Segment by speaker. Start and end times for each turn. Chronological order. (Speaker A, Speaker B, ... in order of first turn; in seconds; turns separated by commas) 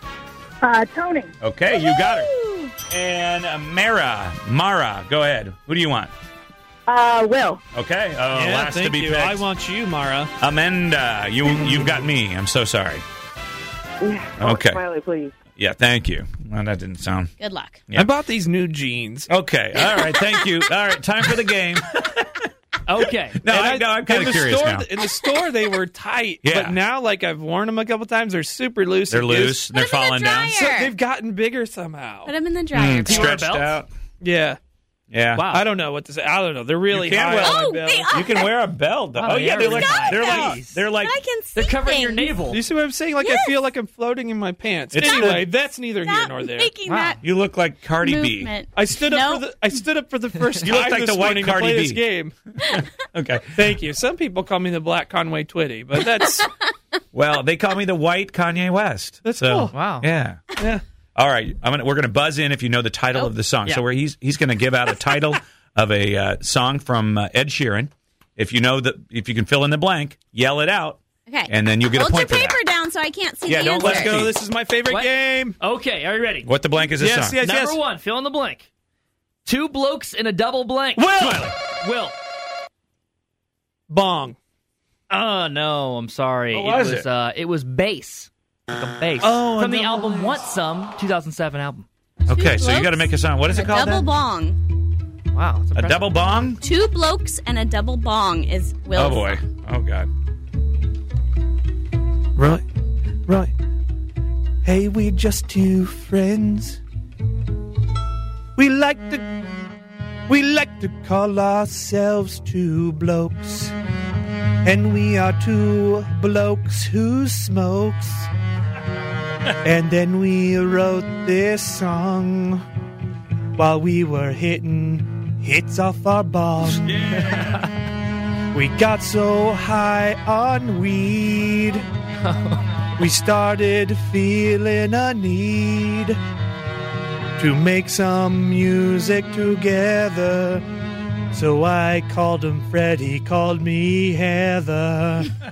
Speaker A: 0.6-1.3, Speaker B: 1.4-2.3, Speaker C: 1.8-2.7, Speaker B: 2.9-6.1, Speaker A: 6.9-7.6, Speaker B: 7.7-9.4, Speaker D: 8.3-10.3, Speaker B: 10.4-13.0, Speaker A: 14.0-15.3, Speaker B: 14.4-14.8, Speaker B: 15.6-17.3, Speaker C: 17.4-17.8, Speaker D: 17.9-19.3, Speaker B: 19.3-22.4, Speaker C: 19.8-20.6, Speaker E: 22.9-23.4, Speaker B: 23.4-24.9, Speaker D: 23.4-29.6, Speaker B: 26.4-26.8, Speaker B: 29.1-30.6, Speaker C: 29.7-30.9, Speaker D: 30.6-32.3, Speaker C: 32.2-33.4, Speaker B: 32.7-33.9, Speaker E: 33.0-33.8, Speaker D: 34.2-34.6, Speaker B: 35.1-35.5, Speaker E: 35.3-35.7, Speaker D: 35.5-38.1, Speaker B: 36.9-41.1, Speaker C: 37.3-38.5, Speaker E: 39.1-40.8, Speaker C: 39.6-42.3, Speaker E: 41.5-42.6, Speaker D: 42.5-46.7, Speaker C: 43.2-43.6, Speaker B: 44.9-45.5, Speaker C: 45.0-45.4, Speaker C: 46.0-47.2, Speaker E: 46.9-47.2, Speaker B: 47.2-48.5, Speaker C: 48.0-49.5, Speaker D: 48.7-52.3, Speaker B: 50.6-52.0, Speaker B: 52.6-53.5, Speaker D: 53.5-56.5, Speaker B: 57.1-60.4, Speaker D: 59.2-59.8, Speaker E: 59.7-60.1, Speaker D: 60.6-60.8, Speaker B: 61.1-72.6, Speaker C: 71.3-74.2, Speaker B: 73.5-74.3, Speaker D: 73.7-75.6, Speaker E: 74.8-76.5, Speaker B: 76.4-77.4, Speaker D: 77.0-77.8, Speaker E: 77.4-78.7, Speaker E: 79.4-82.1, Speaker D: 81.0-81.5, Speaker D: 83.9-84.4, Speaker E: 85.1-91.9, Speaker B: 86.5-87.1, Speaker D: 89.2-90.5, Speaker B: 92.3-94.1, Speaker C: 92.3-94.6, Speaker E: 95.3-96.1, Speaker B: 95.7-96.6, Speaker C: 96.6-99.4, Speaker B: 98.9-100.1, Speaker D: 102.3-102.6, Speaker D: 103.3-103.5, Speaker D: 104.6-106.8, Speaker D: 108.6-109.3, Speaker D: 110.3-113.7, Speaker D: 114.6-118.3, Speaker D: 119.6-122.6, Speaker D: 123.5-127.3, Speaker B: 126.7-127.6, Speaker E: 127.2-127.6, Speaker D: 128.5-131.8, Speaker E: 132.2-132.6, Speaker D: 133.0-136.2, Speaker D: 137.4-140.6, Speaker D: 141.3-145.3